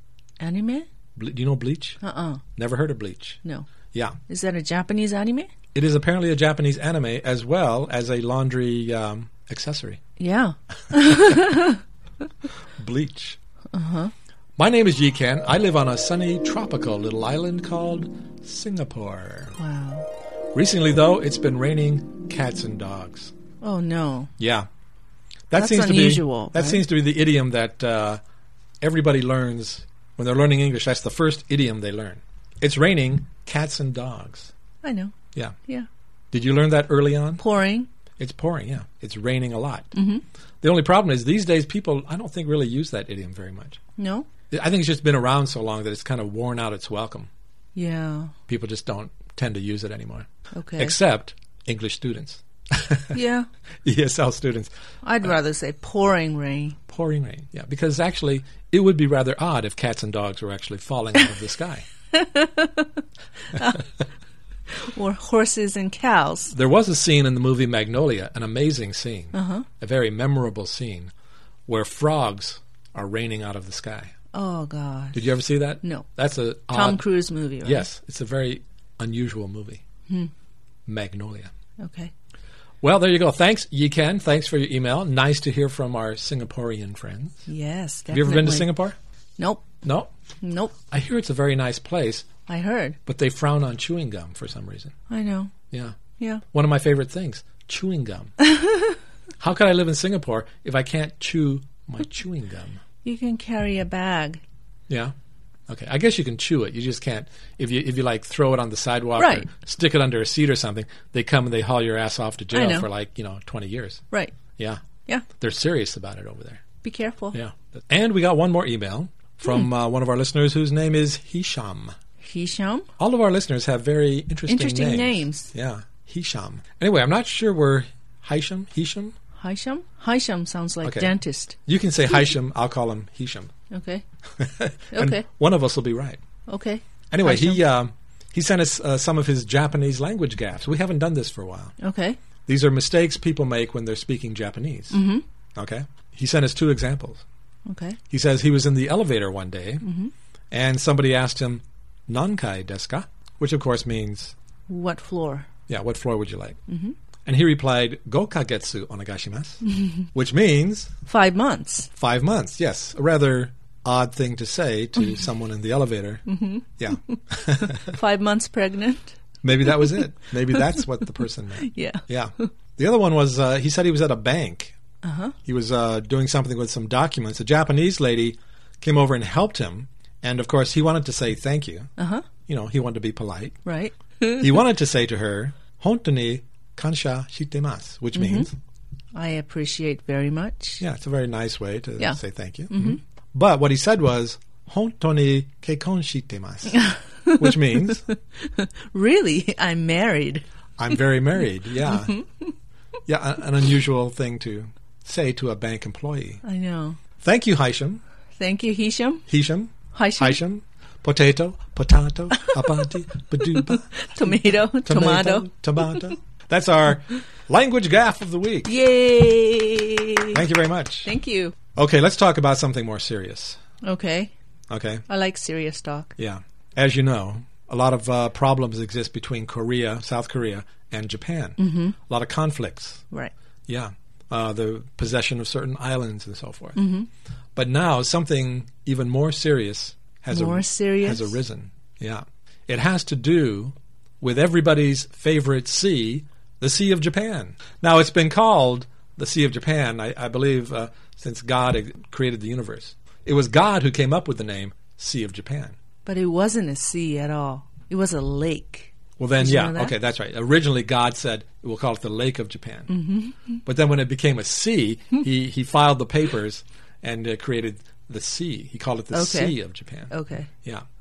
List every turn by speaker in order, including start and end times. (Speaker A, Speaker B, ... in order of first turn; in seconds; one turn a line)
Speaker A: 0.4-0.9
Speaker B: 1.1-2.0
Speaker A: 2.0-2.4
Speaker B: 2.5-3.4
Speaker A: 4.3-5.5
Speaker B: 5.7-10.0
Speaker A: 10.2-11.8
Speaker B: 12.8-13.4
Speaker A: 13.7-14.1
Speaker B: 14.6-19.6
Speaker A: 19.6-20.1
Speaker B: 20.5-23.3
Speaker A: 23.6-24.3
Speaker B: 24.4-24.7
Speaker B: 25.5-28.2
Speaker A: 25.5-26.8
Speaker B: 28.8-34.5
Speaker A: 34.8-35.1
Speaker B: 36.3-37.4
Speaker A: 37.4-37.9
Speaker B: 38.2-39.9
Speaker A: 39.9-40.2
Speaker B: 40.6-43.8
Speaker A: 44.0-44.3
Speaker B: 44.5-47.3
Speaker A: 47.7-48.3
Speaker B: 48.5-53.1
Speaker A: 50.5-50.9
Speaker A: 53.1-53.5
Speaker B: 53.8-54.7
Speaker A: 55.0-56.8
Speaker B: 56.9-61.9
Speaker A: 62.1-63.0
Speaker A: 63.5-63.8
Speaker A: 64.8-66.5
Speaker B: 66.5-71.1
Speaker A: 69.3-69.7
Speaker B: 71.7-74.1
Speaker A: 74.3-75.2
Speaker B: 75.1-77.0
Speaker A: 75.8-76.1
Speaker A: 76.7-77.8
Speaker B: 77.6-79.8
Speaker B: 80.9-81.5
Speaker A: 81.8-82.1
Speaker B: 82.8-87.5
Speaker A: 87.5-88.7
Speaker B: 88.1-89.0
Speaker A: 89.4-89.8
Speaker B: 89.8-90.1
Speaker A: 90.4-90.7
Speaker B: 90.9-92.3
Speaker A: 92.5-93.0
Speaker B: 93.0-94.9
Speaker A: 95.1-95.5
Speaker B: 95.7-96.0
Speaker A: 96.2-96.4
Speaker B: 96.5-98.3
Speaker A: 98.5-98.9
Speaker B: 99.4-102.8
Speaker A: 103.0-104.4
Speaker B: 104.9-105.1
Speaker B: 105.7-114.0
Speaker A: 109.2-109.5
Speaker A: 112.5-112.9
Speaker B: 114.6-116.6
Speaker A: 116.8-117.3
Speaker B: 117.3-121.9
Speaker A: 122.2-122.9
Speaker B: 123.0-129.2
Speaker A: 124.5-125.5
Speaker A: 129.4-131.6
Speaker B: 130.8-131.1
Speaker B: 131.6-133.5
Speaker A: 133.7-134.0
Speaker B: 134.4-136.2
Speaker A: 134.9-135.2
Speaker A: 136.5-137.6
Speaker B: 137.1-141.7
Speaker A: 141.8-142.2
Speaker B: 142.4-145.0
Speaker A: 144.9-145.2
Speaker B: 145.6-147.2
Speaker A: 147.7-148.0
Speaker B: 148.1-149.9
Speaker A: 149.8-150.1
Speaker B: 150.5-154.3
Speaker A: 154.7-155.5
Speaker B: 155.7-156.6
Speaker A: 156.7-156.9
Speaker B: 157.2-160.9
Speaker A: 161.1-161.9
Speaker B: 161.9-166.3
Speaker A: 166.3-169.1
Speaker B: 166.8-167.9
Speaker B: 169.4-174.8
Speaker A: 169.7-170.0
Speaker A: 170.5-170.8
Speaker A: 171.6-172.4
Speaker A: 175.0-175.3
Speaker B: 175.4-181.9
Speaker A: 182.0-182.2
Speaker B: 182.4-183.6
Speaker A: 183.6-184.5
Speaker B: 184.4-188.5
Speaker A: 188.2-188.5
Speaker A: 189.1-190.8
Speaker B: 190.8-198.0
Speaker A: 192.7-193.0
Speaker A: 196.8-200.4
Speaker B: 200.8-202.2
Speaker A: 201.8-202.5
Speaker B: 203.1-206.4
Speaker A: 206.4-207.0
Speaker B: 207.2-208.0
Speaker A: 208.4-209.2
Speaker B: 209.3-218.7
Speaker A: 209.9-210.4
Speaker A: 212.4-212.9
Speaker A: 213.4-216.1
Speaker A: 218.7-220.4
Speaker B: 220.3-221.1
Speaker A: 221.0-221.5
Speaker B: 221.7-223.6
Speaker A: 223.8-224.3
Speaker B: 224.7-225.0
Speaker A: 225.1-226.1
Speaker B: 226.2-233.0
Speaker A: 231.6-231.9
Speaker B: 233.7-236.8
Speaker A: 236.8-237.1
Speaker B: 237.6-255.8
Speaker A: 240.3-241.3
Speaker A: 256.1-259.9
Speaker B: 259.2-262.9
Speaker A: 262.9-263.6
Speaker B: 263.6-270.1
Speaker A: 269.1-269.5
Speaker A: 270.1-270.5